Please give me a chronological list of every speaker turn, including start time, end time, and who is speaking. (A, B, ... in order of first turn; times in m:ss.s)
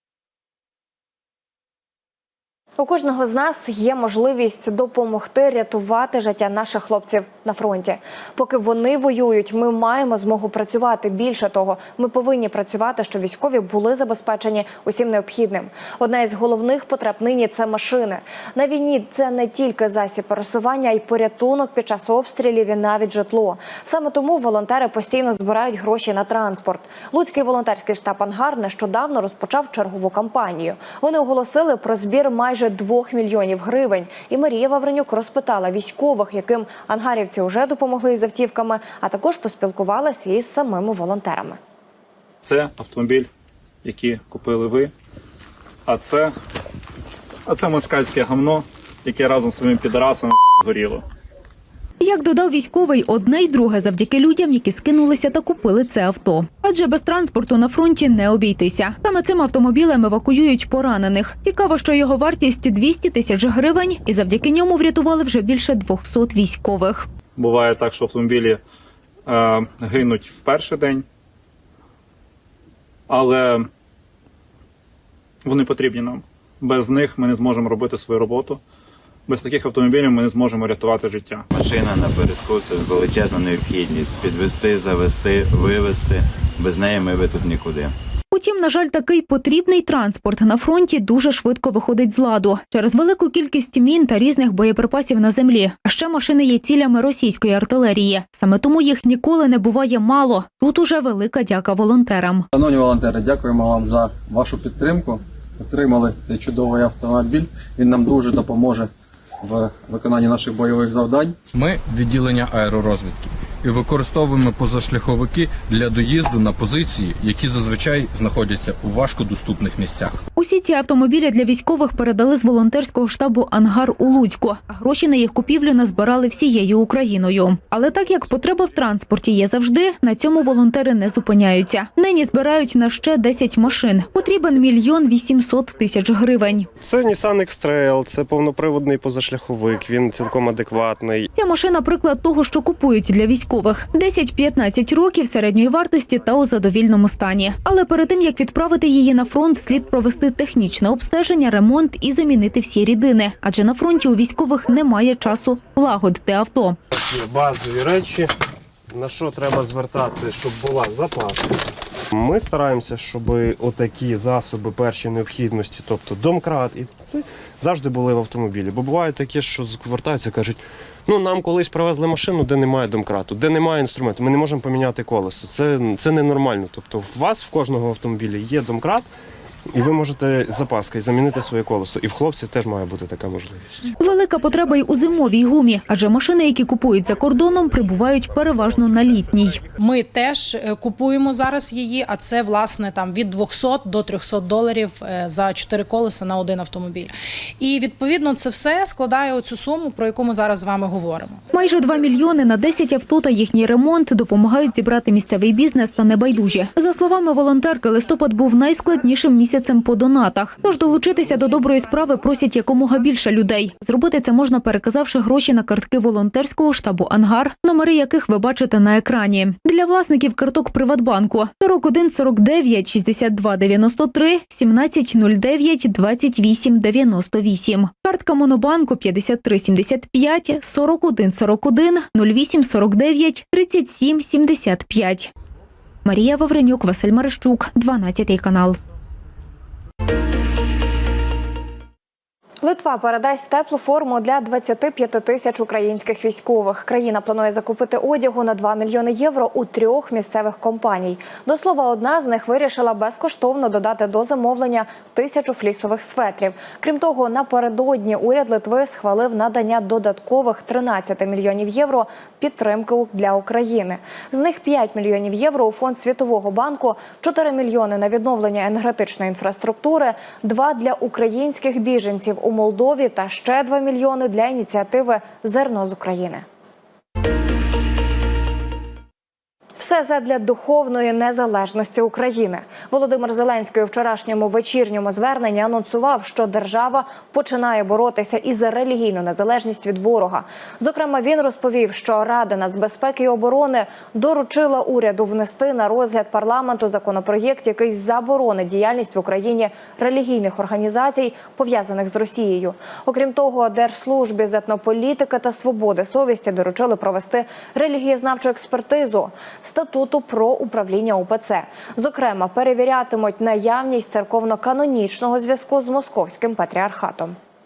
0:02.8-0:41.6 A
0:42.4-0:43.3 B
0:43.8-0:44.9 B
0:45.8-0:46.3 B
0:47.4-0:51.0 B
0:52.0-1:07.1 C
1:07.4-1:08.6 B
1:09.2-1:11.0 B
1:13.1-1:13.7 B
1:15.4-1:18.6 B
1:19.3-1:21.4 B
1:21.5-1:27.9 D
1:28.3-1:42.4 C
1:42.5-1:48.9 E
1:49.4-1:51.4 E
1:51.5-2:00.2 F
2:00.4-2:16.7 C
2:16.8-2:21.3 G
2:21.3-2:36.8 C
2:36.9-2:38.3 G
2:38.9-2:41.5 G
2:42.1-2:59.0 G
2:59.7-3:03.7 G
3:04.0-3:09.6 C
3:09.7-3:21.4 H
3:21.5-3:55.3 C
3:56.0-3:58.8 C
4:02.6-4:36.4 A
4:39.8-5:17.4 A